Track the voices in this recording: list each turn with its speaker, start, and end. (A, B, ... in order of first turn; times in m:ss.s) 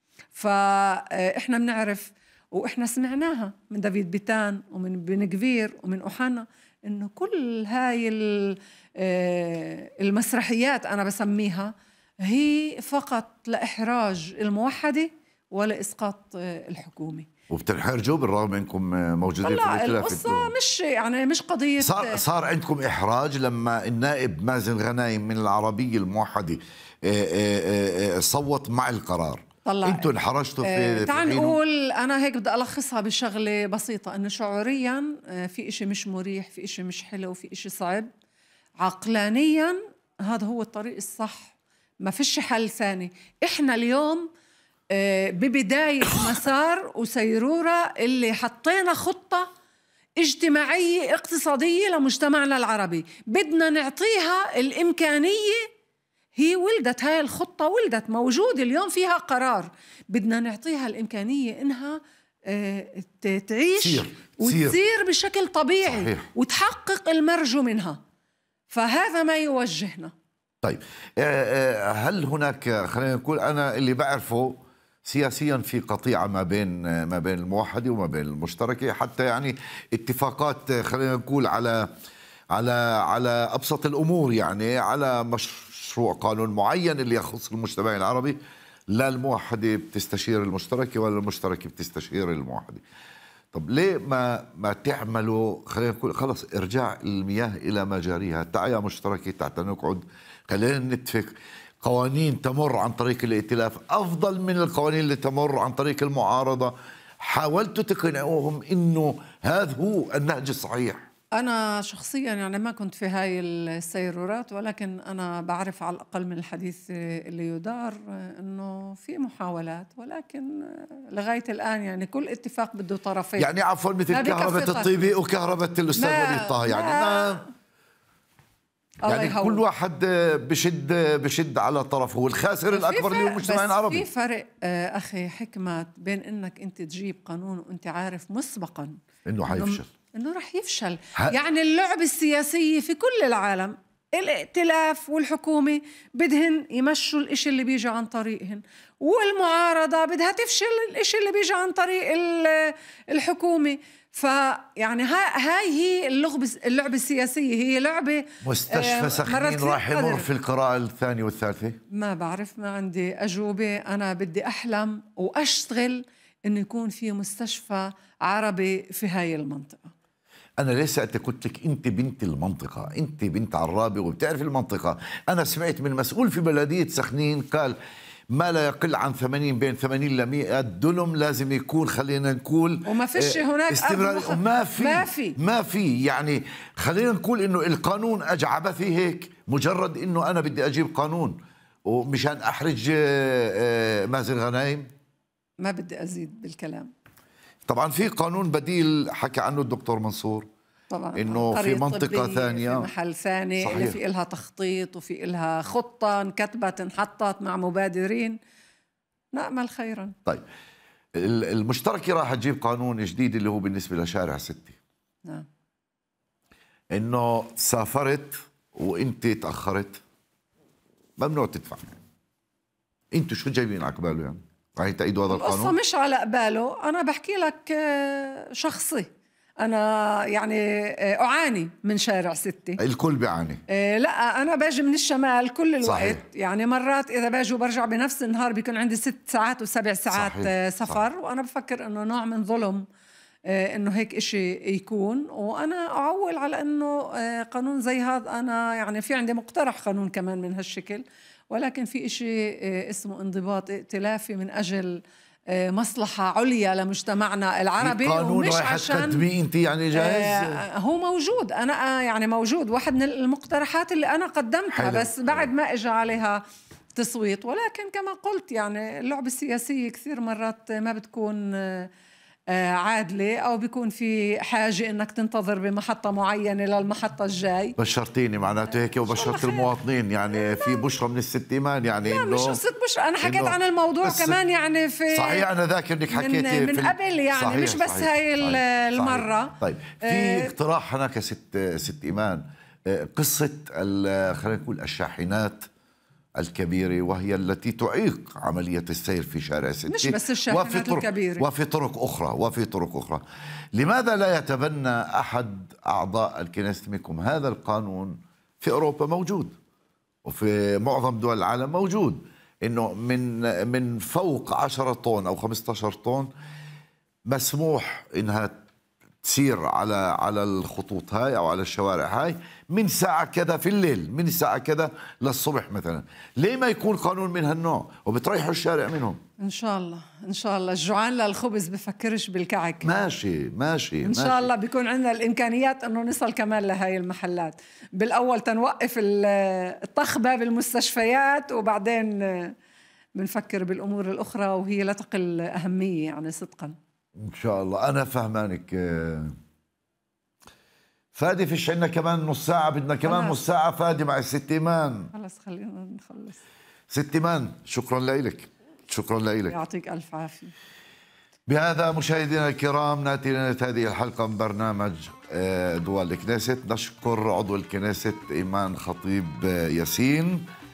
0:00.3-0:17.3 A
0:17.5-0:20.5 B
0:19.4-0:22.2 A
0:21.8-0:31.6 B
0:29.6-0:30.1 A
0:30.6-0:38.1 A
0:38.8-0:44.3 A
0:44.9-0:49.5 A
0:50.2-0:55.6 A
0:56.4-1:08.0 A
1:03.8-1:04.8 B
1:05.8-1:06.3 B
1:08.7-1:10.1 A
1:10.6-1:21.9 B
1:22.5-1:28.4 B
1:28.9-1:32.8 B
1:33.5-1:51.0 B
1:51.4-2:03.5 A
2:03.4-2:07.4 B
2:04.1-2:04.9 A
2:06.0-2:07.5 A
2:09.0-2:09.6 A
2:09.0-2:14.0 B
2:12.7-2:40.3 A
2:19.2-2:19.9 B
2:38.4-2:41.8 B
2:41.9-2:49.9 A
2:50.6-2:57.8 B
2:58.3-3:14.9 B
3:02.8-3:05.4 A
3:15.6-3:16.9 A
3:17.7-3:20.5 B
3:20.9-3:28.4 A
3:21.1-3:22.9 B
3:23.6-3:24.0 B
3:29.3-3:30.2 A
3:31.1-3:34.8 B
3:36.9-3:40.0 B
3:41.2-3:42.0 B
3:43.1-3:45.8 B
3:45.3-3:49.1 A
3:49.6-3:52.8 A
3:52.8-3:53.6 B
3:53.7-4:02.8 A
3:55.8-3:56.2 B
4:00.1-4:01.0 B
4:03.5-4:19.2 A
4:17.8-4:20.6 B
4:19.9-4:26.4 A
4:24.7-4:25.5 B
4:27.0-4:31.9 A
4:32.5-4:37.8 A
4:37.8-4:42.6 B
4:39.0-4:39.7 A
4:40.3-4:40.8 A
4:42.1-4:45.5 A
4:43.2-4:44.4 B
4:45.1-4:55.6 B
4:46.1-4:50.5 A
4:56.4-5:03.2 B
4:59.9-5:01.5 A
5:03.7-5:09.5 B
5:10.2-5:16.3 B
5:17.3-5:18.6 B
5:19.2-5:29.2 B
5:29.4-5:32.9 A
5:32.8-5:34.5 B
5:34.0-5:42.5 A
5:43.2-5:46.8 A
5:47.2-5:49.3 B
5:51.1-5:55.1 B
5:53.0-5:53.4 A
5:55.1-5:56.4 A
5:56.9-5:59.6 B
5:59.5-6:00.5 A
6:01.5-6:10.5 B